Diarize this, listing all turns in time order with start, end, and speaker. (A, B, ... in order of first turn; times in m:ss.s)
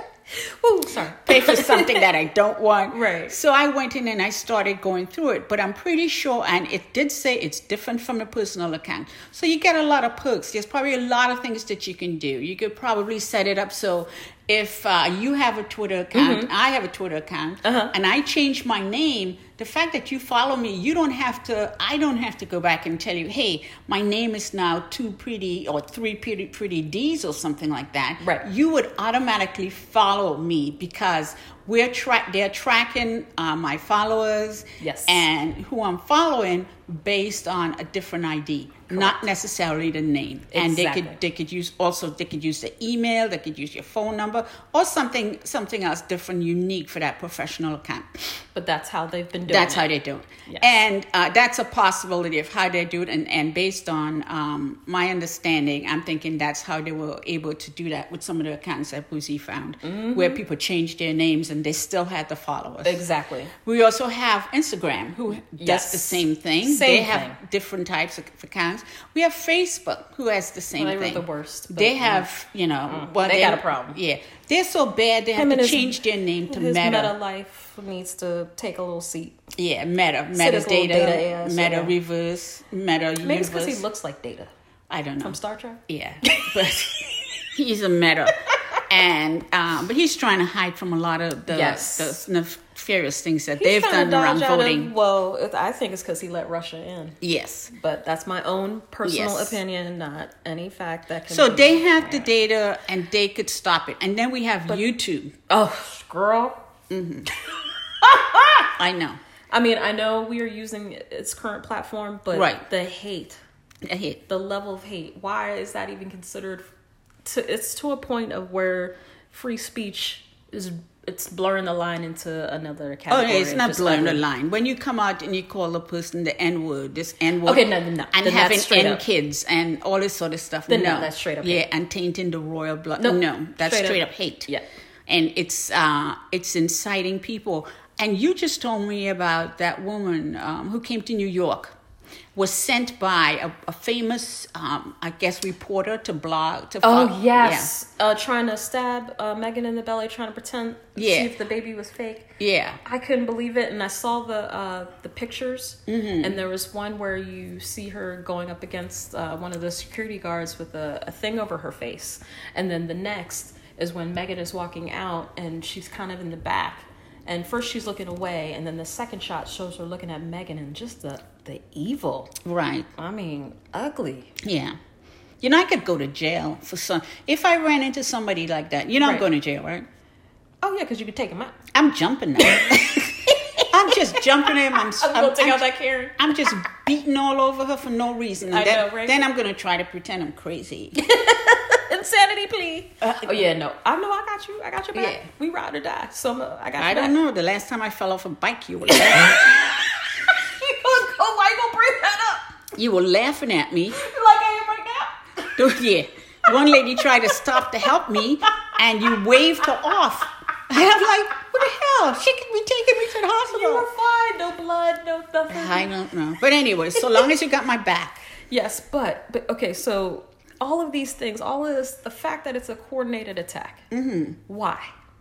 0:00.4-0:02.1 A
0:01.2-0:48.1 B
0:02.9-0:03.4 A
0:16.1-0:16.5 A
0:17.6-0:17.9 A
0:28.2-0:28.5 A
0:34.8-0:35.2 A
0:40.5-0:41.2 A
0:48.5-0:49.9 A
0:49.4-1:03.0 B
0:50.5-0:50.7 A
0:59.8-1:00.4 A
1:02.8-1:03.5 A
1:03.6-1:17.1 B
1:05.6-1:07.4 A
1:10.8-1:12.2 A
1:12.9-1:14.0 A
1:15.3-1:19.4 A
1:19.6-1:23.8 B
1:20.3-1:21.9 A
1:23.2-1:24.5 A
1:24.9-1:34.9 B
1:25.2-1:26.5 A
1:31.5-1:32.2 A
1:33.6-1:37.2 A
1:37.2-1:37.7 B
1:37.7-1:42.3 A
1:39.0-1:39.6 B
1:41.3-1:45.3 B
1:45.5-1:46.6 A
1:46.9-1:47.3 B
1:48.0-1:48.7 A
1:48.7-1:49.2 B
1:49.5-1:53.4 A
1:52.3-1:52.6 B
1:53.8-1:54.2 B
1:54.3-1:56.7 A
1:57.2-2:04.2 A
2:03.1-2:14.5 B
2:07.4-2:09.0 A
2:10.7-2:11.6 A
2:13.0-2:14.6 A
2:15.1-2:21.7 B
2:22.3-2:27.7 B
2:26.8-2:52.3 A
2:31.0-2:31.3 B
2:32.4-2:32.8 B
2:35.9-2:36.4 B
2:52.4-2:52.9 B
2:53.0-2:54.4 A
2:54.4-2:54.8 B
2:55.4-2:59.9 B
2:59.0-2:59.2 A
3:00.6-3:01.6 A
3:01.7-3:05.6 B
3:02.4-3:06.5 A
3:06.2-3:11.0 B
3:08.5-3:09.2 A
3:11.0-3:17.1 A
3:13.0-3:13.4 B
3:14.9-3:15.2 B
3:16.8-3:19.8 B
3:18.9-3:22.5 A
3:22.7-3:24.0 B
3:23.9-3:25.6 A
3:25.5-3:33.8 B
3:26.5-3:27.4 A
3:33.5-3:35.9 A
3:35.5-3:38.2 B
3:38.5-3:43.8 A
3:43.9-3:44.4 B
3:44.5-3:44.9 A